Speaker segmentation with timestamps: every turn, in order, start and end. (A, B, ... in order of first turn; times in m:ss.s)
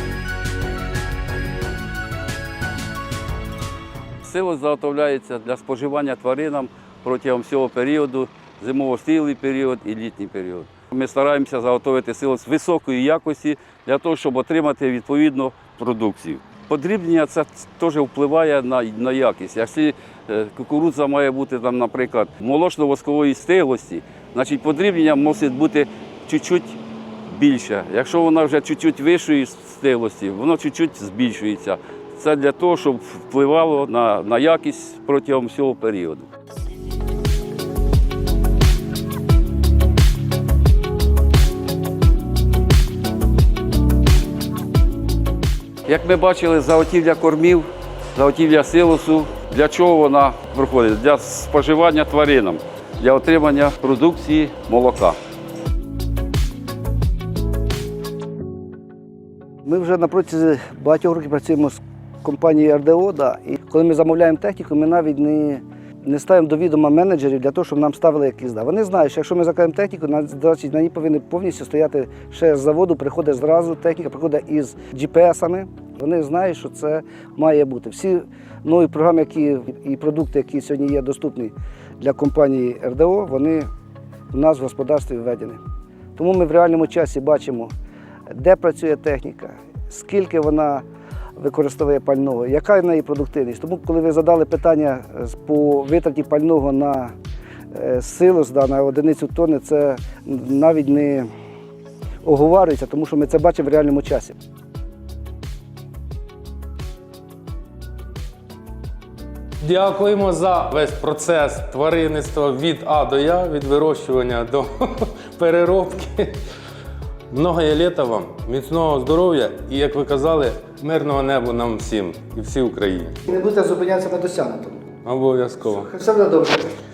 0:04.2-0:36.3 A
0:45.9-0:55.2 A
0:59.6-1:23.7 B
1:24.3-1:25.6 B
1:26.2-1:27.7 B
1:28.3-1:30.8 B
1:31.4-1:37.2 B
1:37.7-1:41.3 B
1:42.2-1:44.4 B
1:49.6-1:56.4 C
1:57.3-2:03.2 C
2:03.3-2:04.8 B
2:05.0-2:05.9 C
2:05.6-2:06.7 B